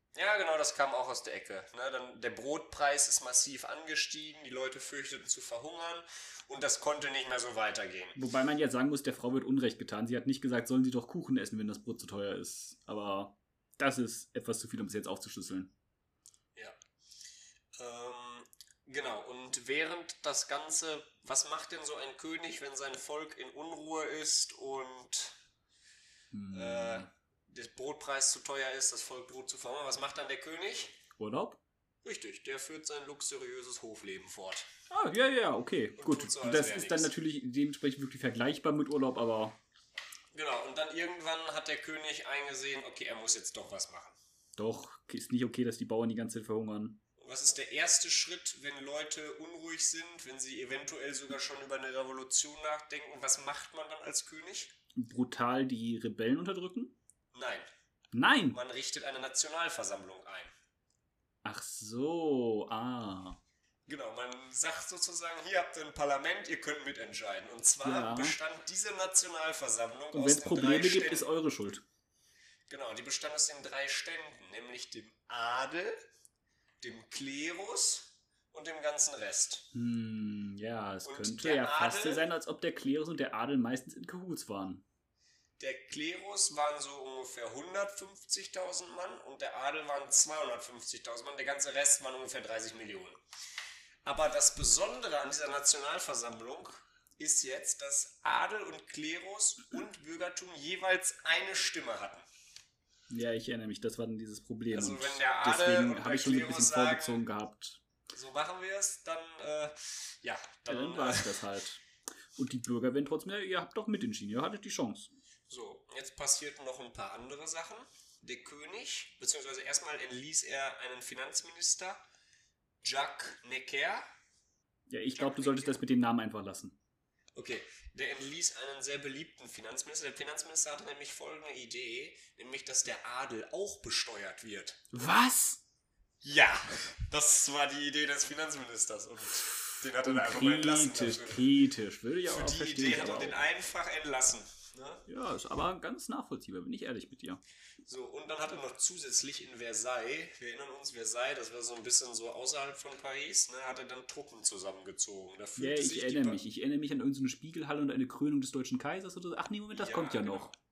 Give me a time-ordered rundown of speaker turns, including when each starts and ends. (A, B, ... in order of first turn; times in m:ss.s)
0:00.1-0:08.2 A
0:08.2-0:15.7 B
0:17.8-0:25.4 A
0:26.3-0:27.1 B
0:26.5-0:31.0 A
0:31.2-0:31.6 B
0:32.0-0:34.7 A
0:34.9-0:39.6 B
0:36.0-0:37.1 A
0:40.3-0:44.2 A
0:44.6-0:47.0 B
0:47.2-0:54.8 A
0:55.0-0:57.0 B
0:57.3-0:57.6 A
0:58.1-0:58.6 B
0:58.5-1:00.5 A
1:01.4-1:03.4 B
1:03.8-1:11.3 A
1:07.8-1:08.4 B
1:10.1-1:11.8 B
1:12.7-1:16.0 A
1:16.8-1:19.7 A
1:19.7-1:24.8 B
1:21.0-1:22.2 A
1:25.6-1:33.2 A
1:34.0-1:42.2 A
1:43.1-1:47.8 B
1:44.7-1:47.2 A
1:48.1-1:51.4 A
1:50.7-1:51.8 B
1:52.4-1:55.1 B
1:55.5-2:02.0 A
2:02.8-2:04.0 A
2:04.9-2:06.8 B
2:05.1-2:05.8 A
2:07.3-2:14.8 A
2:14.9-2:15.6 B
2:16.2-2:21.4 A
2:20.0-2:23.4 B
2:22.3-2:25.0 A
2:25.1-2:27.4 B
2:27.8-2:36.4 A
2:35.6-2:40.5 B
2:39.7-2:40.5 A